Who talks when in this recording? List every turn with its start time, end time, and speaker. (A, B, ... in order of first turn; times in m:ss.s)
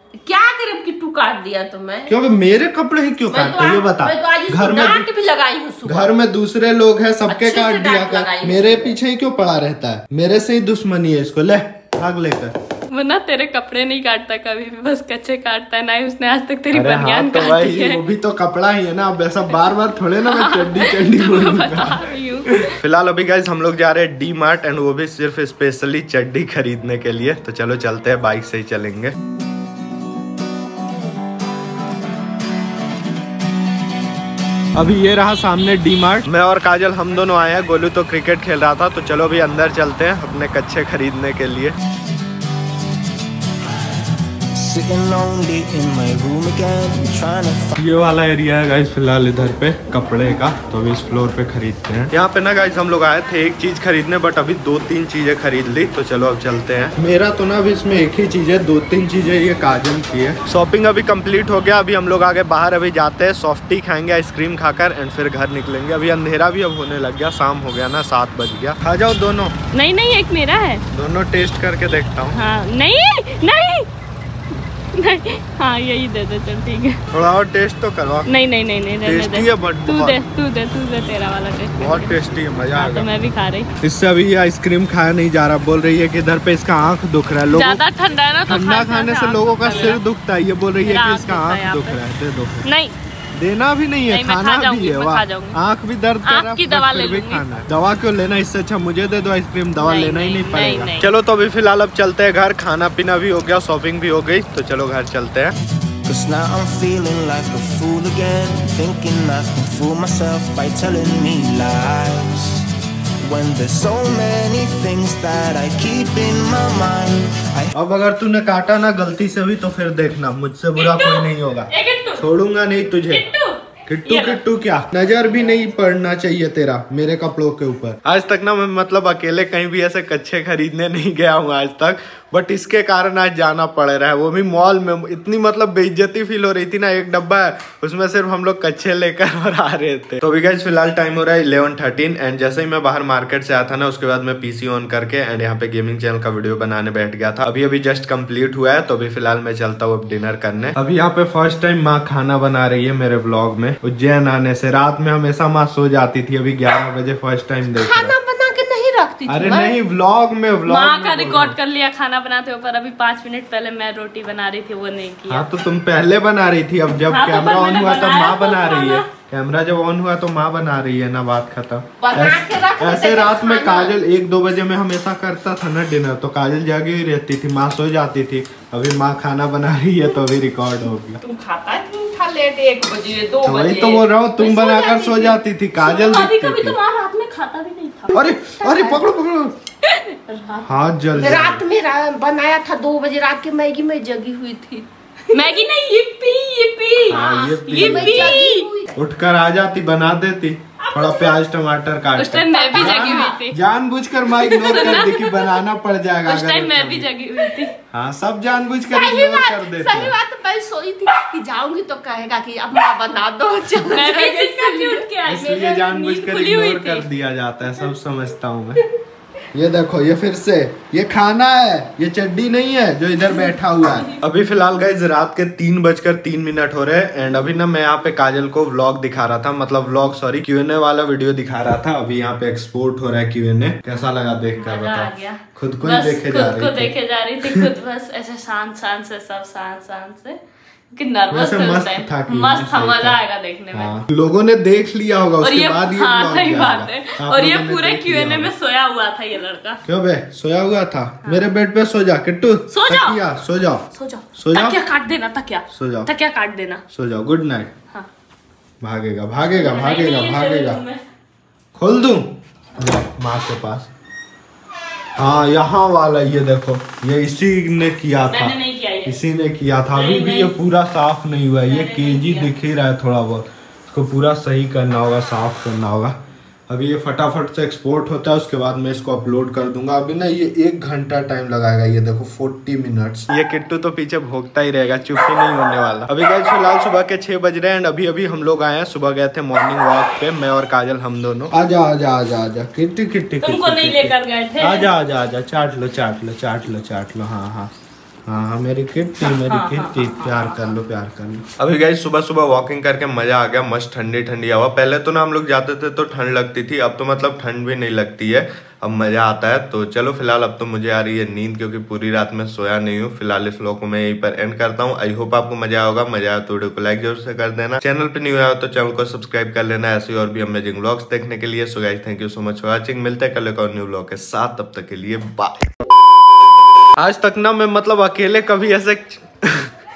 0:00.2-0:02.1 A
0:02.1-0:05.1 B
0:03.3-0:06.2 A
0:05.8-0:12.5 B
0:07.3-0:09.0 A
0:12.9-0:18.0 C
0:16.7-0:29.2 B
0:20.2-0:22.7 C
0:34.8-0:41.7 B
0:44.5-0:47.8 D
0:47.8-1:09.6 B
1:09.7-1:10.8 C
1:10.9-1:12.4 B
1:12.3-1:13.9 C
1:15.0-1:17.0 C
1:17.1-1:18.3 B
1:18.3-1:23.7 C
1:19.0-1:20.2 B
1:21.8-1:23.1 B
1:23.8-1:27.8 B
1:27.5-1:30.0 C
1:28.5-1:32.6 B
1:30.8-1:32.0 C
1:32.6-1:32.9 C
1:33.3-1:45.6 B
1:34.1-1:35.6 C
1:36.2-1:37.6 C
1:39.8-1:41.1 C
1:46.0-1:52.7 D
1:53.2-1:57.7 D
1:57.7-2:03.2 B
2:00.8-2:02.3 C
2:02.9-2:04.4 C
2:03.9-2:38.2 B
2:37.8-2:39.8 A
2:39.3-2:41.6 B
2:40.7-2:45.5 C
2:45.3-3:01.2 B
2:47.1-2:49.1 C
2:52.0-2:54.0 A
3:01.2-3:05.4 A
3:03.4-3:06.8 B
3:05.8-3:08.1 C
3:08.1-3:09.5 B
3:08.4-3:09.1 A
3:09.8-3:10.7 C
3:10.6-3:11.6 B
3:11.2-3:15.4 A
3:15.3-3:18.7 C
3:17.1-3:19.0 A
3:17.1-3:18.4 B
3:19.0-3:27.1 B
3:20.8-3:21.4 A
3:22.2-3:23.6 C
3:22.5-3:23.4 A
3:24.4-3:25.6 C
3:24.6-3:25.0 A
3:26.2-3:27.7 C
3:27.9-3:30.2 B
3:28.9-3:35.1 A
3:33.9-3:37.1 C
3:35.3-3:38.8 B
3:39.5-3:56.9 B
3:54.6-4:00.4 C
4:00.9-4:04.0 C
4:01.3-4:03.2 B
4:03.7-4:08.5 B
4:05.4-4:09.8 C
4:09.8-4:14.8 B
4:11.2-4:11.5 C
4:12.7-4:13.2 C
4:13.9-4:16.8 C
4:15.7-4:16.1 B
4:16.9-4:17.7 B
4:18.8-4:20.8 B
4:19.6-4:21.0 C
4:21.8-4:23.9 B
4:25.2-4:28.5 B
4:28.3-4:29.2 C
4:29.0-4:36.2 B
4:29.9-4:30.6 C
4:31.6-4:32.5 C
4:36.7-4:57.7 B
4:53.4-4:54.9 C
4:58.3-5:25.7 B
4:59.2-5:00.8 C
5:27.0-5:29.7 B